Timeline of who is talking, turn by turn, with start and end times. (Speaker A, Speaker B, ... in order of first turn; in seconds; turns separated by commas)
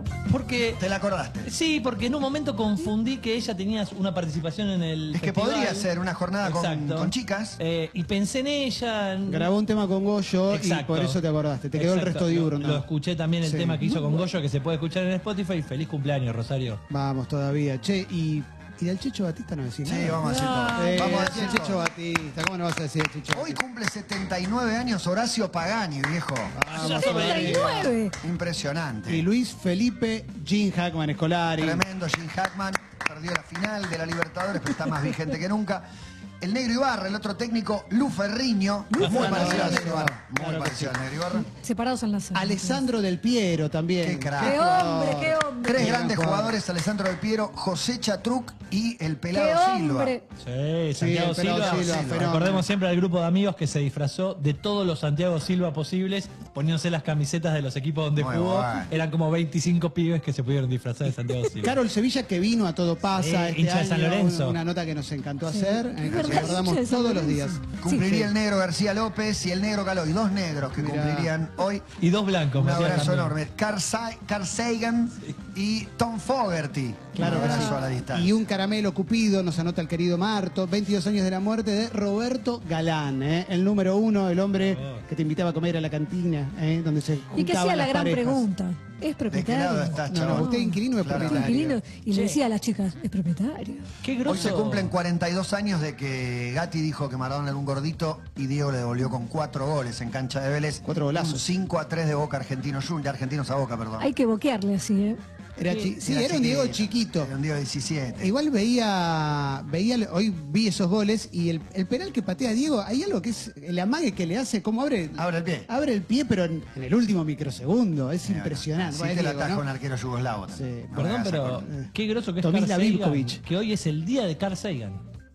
Speaker A: 0.3-0.8, Speaker B: 0.8-1.5, Speaker A: 1.4-5.9, Speaker B: 5.1-7.6, Speaker A: 6.4-9.5, Speaker C: 9.3-12.8, Speaker A: 10.5-11.2, Speaker A: 11.7-16.8, Speaker C: 13.4-14.2, Speaker C: 16.9-20.2, Speaker B: 19.9-21.9, Speaker A: 20.2-21.4, Speaker D: 20.2-21.5, Speaker C: 20.7-23.6, Speaker B: 23.3-29.3, Speaker C: 26.5-27.8, Speaker A: 26.7-28.0, Speaker D: 26.8-28.1, Speaker C: 29.1-31.8, Speaker B: 31.6-35.9, Speaker B: 36.4-41.5, Speaker C: 38.9-41.0, Speaker A: 39.0-39.8, Speaker D: 41.5-42.8, Speaker C: 42.3-46.6, Speaker B: 44.0-44.6, Speaker D: 44.4-45.9, Speaker B: 45.6-50.1, Speaker D: 49.3-50.2, Speaker A: 50.4-61.8, Speaker C: 51.0-52.7, Speaker B: 51.5-52.3, Speaker B: 58.1-58.9, Speaker C: 61.5-68.3, Speaker A: 63.1-64.6, Speaker D: 65.5-68.1, Speaker B: 66.1-66.6, Speaker B: 67.8-71.9, Speaker C: 70.8-71.3, Speaker A: 72.0-73.3, Speaker B: 72.5-78.5, Speaker C: 77.2-88.5, Speaker D: 77.3-77.9, Speaker A: 84.6-85.0, Speaker D: 87.3-93.9, Speaker B: 89.3-91.6, Speaker C: 90.1-91.8, Speaker A: 92.1-92.4, Speaker A: 94.0-94.9, Speaker B: 94.2-104.1, Speaker C: 100.8-101.5, Speaker D: 104.0-105.2, Speaker C: 105.6-107.3, Speaker B: 105.7-108.3, Speaker C: 108.2-119.7, Speaker B: 115.2-115.7, Speaker B: 118.2-121.7, Speaker C: 120.5-121.0, Speaker A: 121.0-125.0, Speaker C: 121.7-123.4